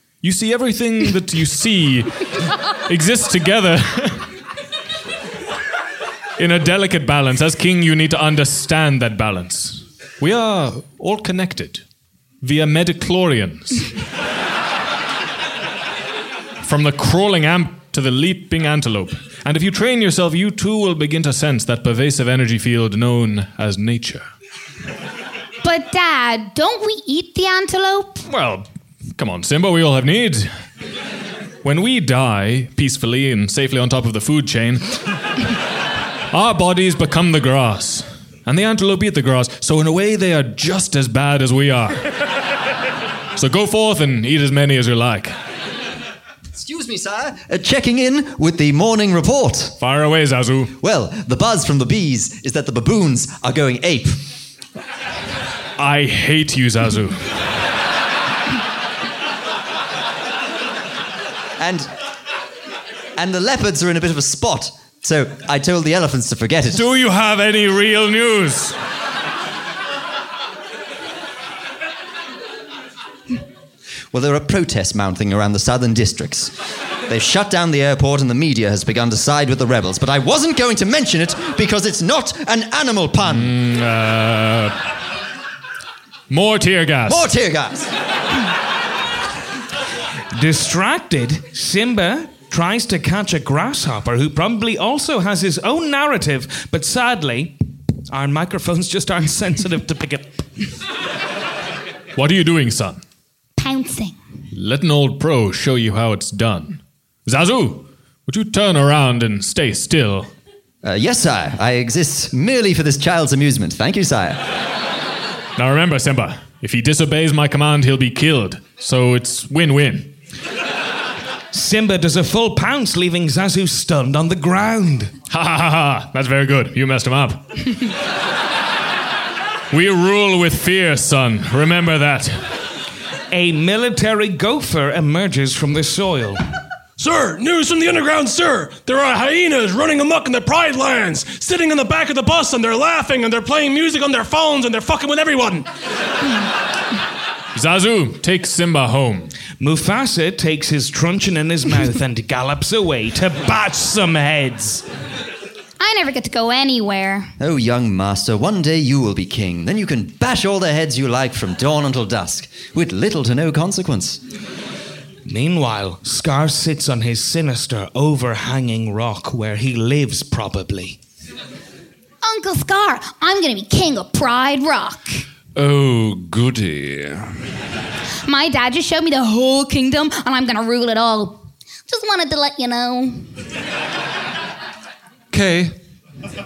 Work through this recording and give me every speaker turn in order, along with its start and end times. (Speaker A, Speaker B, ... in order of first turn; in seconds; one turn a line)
Speaker A: 0.2-4.3
Speaker A: 6.4-11.8
Speaker A: 12.4-13.9
Speaker A: 16.6-24.3
Speaker B: 25.6-28.2
Speaker A: 28.3-30.5
Speaker A: 31.6-35.0
Speaker A: 36.3-42.2
Speaker A: 43.4-45.3
Speaker C: 46.5-49.8
Speaker A: 49.8-50.7
Speaker C: 50.8-54.3
Speaker A: 55.8-57.3
Speaker C: 61.6-61.9
Speaker C: 63.2-66.8
Speaker A: 66.7-68.8
Speaker C: 74.1-76.5
Speaker C: 77.1-83.6
Speaker A: 83.2-84.8
Speaker A: 86.3-87.3
Speaker C: 87.1-87.9
Speaker D: 90.3-97.5
Speaker D: 98.1-100.4
Speaker A: 102.2-103.0
Speaker B: 103.6-104.2
Speaker A: 104.5-110.3
Speaker C: 110.8-114.4
Speaker A: 115.6-120.2
Speaker D: 121.5-125.1
Speaker A: 125.3-127.9
Speaker A: 129.7-132.5
Speaker D: 133.3-136.4
Speaker E: 137.0-145.7
Speaker A: 147.5-149.3
Speaker D: 149.6-154.8
Speaker B: 155.8-157.3
Speaker C: 157.4-164.2
Speaker D: 165.2-171.0
Speaker B: 172.2-175.2
Speaker F: 175.6-177.4
Speaker B: 178.2-183.3
Speaker F: 185.3-185.8